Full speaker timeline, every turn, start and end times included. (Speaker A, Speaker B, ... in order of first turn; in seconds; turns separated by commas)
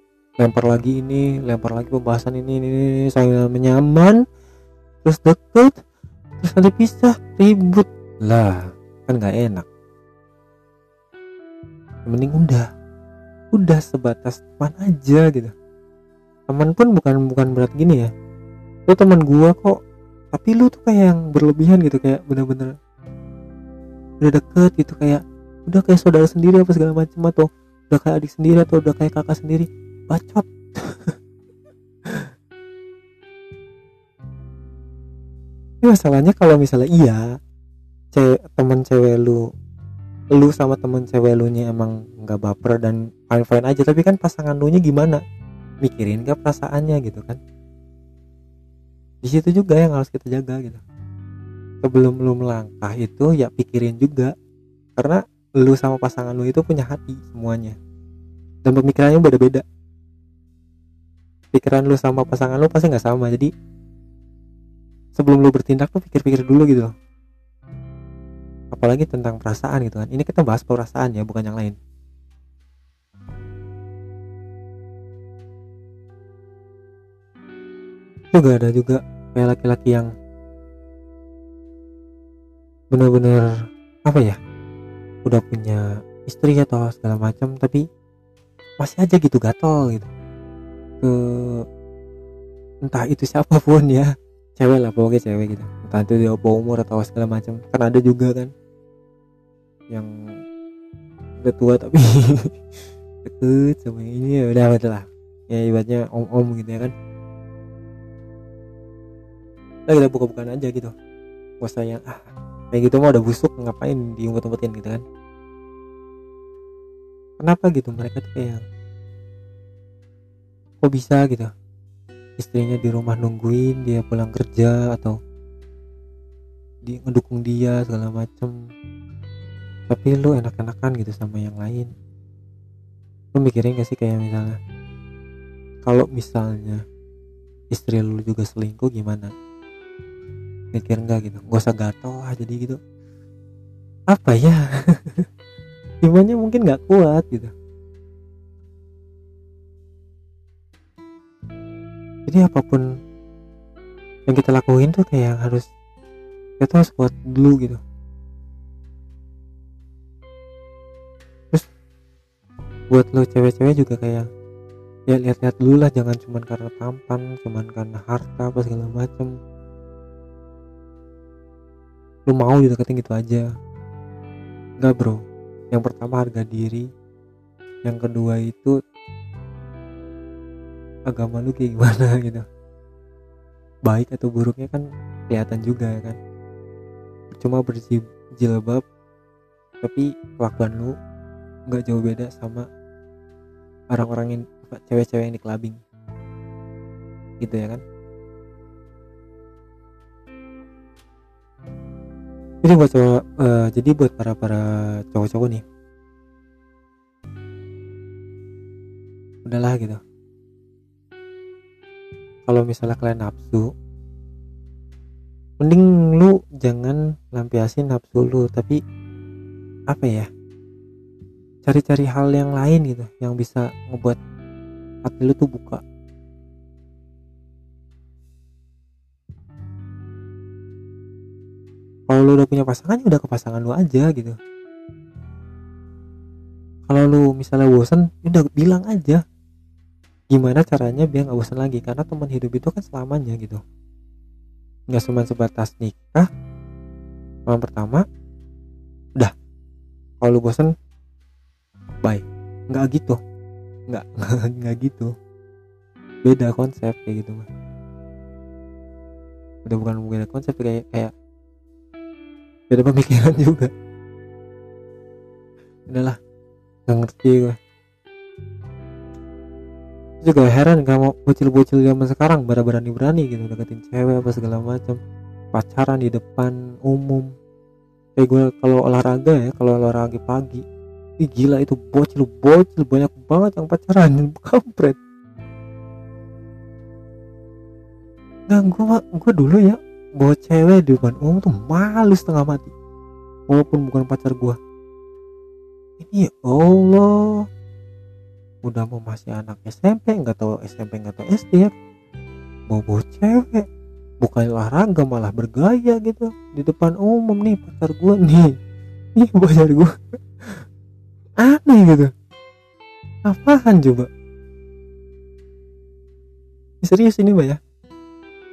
Speaker A: 0.4-4.2, Speaker A: 5.0-5.8, Speaker A: 6.4-9.7, Speaker A: 12.1-12.7, Speaker A: 13.5-15.5, Speaker A: 16.5-18.1, Speaker A: 18.9-19.7, Speaker A: 20.3-22.7, Speaker A: 24.2-31.1, Speaker A: 35.8-37.2, Speaker A: 38.1-39.4, Speaker A: 40.3-45.2, Speaker A: 45.8-47.4, Speaker A: 49.2-50.8, Speaker A: 51.8-54.3, Speaker A: 55.0-57.8, Speaker A: 58.6-59.6, Speaker A: 61.5-63.5, Speaker A: 65.2-66.9, Speaker A: 68.7-71.7, Speaker A: 78.3-80.1, Speaker A: 82.9-83.5, Speaker A: 84.0-84.4, Speaker A: 85.2-87.8, Speaker A: 88.8-90.1, Speaker A: 91.0-91.6, Speaker A: 92.8-98.5, Speaker A: 101.4-102.5, Speaker A: 103.2-106.9, Speaker A: 109.9-110.9, Speaker A: 111.6-115.0, Speaker A: 117.4-118.6, Speaker A: 120.8-121.5, Speaker A: 122.4-125.1, Speaker A: 126.8-128.5, Speaker A: 129.9-131.9, Speaker A: 133.3-134.6, Speaker A: 135.8-136.8, Speaker A: 137.7-139.3, Speaker A: 140.7-142.8, Speaker A: 144.1-145.3, Speaker A: 146.0-147.5, Speaker A: 152.3-152.8, Speaker A: 154.3-155.7, Speaker A: 156.6-157.8, Speaker A: 162.9-164.3, Speaker A: 165.1-169.3, Speaker A: 172.3-173.5, Speaker A: 174.8-175.2, Speaker A: 175.7-176.8, Speaker A: 177.8-178.8, Speaker A: 181.1-182.4, Speaker A: 183.9-186.2, Speaker A: 187.3-188.8, Speaker A: 189.8-190.9, Speaker A: 191.7-192.7, Speaker A: 193.9-195.8, Speaker A: 197.4-197.8, Speaker A: 202.6-205.6, Speaker A: 209.4-210.0, Speaker A: 212.4-213.7, Speaker A: 215.6-218.8, Speaker A: 219.9-220.3, Speaker A: 221.6-224.2, Speaker A: 225.0-225.8, Speaker A: 232.1-234.3, Speaker A: 236.9-239.2, Speaker A: 240.3-243.6, Speaker A: 244.9-246.3, Speaker A: 247.5-248.0, Speaker A: 250.2-250.7, Speaker A: 252.0-253.2, Speaker A: 253.9-255.1, Speaker A: 256.2-257.5, Speaker A: 259.6-261.1, Speaker A: 262.7-263.7, Speaker A: 265.9-266.2, Speaker A: 266.9-267.6, Speaker A: 270.2-275.0, Speaker A: 275.5-277.3, Speaker A: 278.2-280.6, Speaker A: 281.2-285.0, Speaker A: 288.5-292.7, Speaker A: 293.5-294.6, Speaker A: 296.0-297.4, Speaker A: 298.6-301.7, Speaker A: 302.7-303.6, Speaker A: 304.2-308.5, Speaker A: 309.1-309.9, Speaker A: 311.4-312.1, Speaker A: 313.3-314.1, Speaker A: 316.8-317.6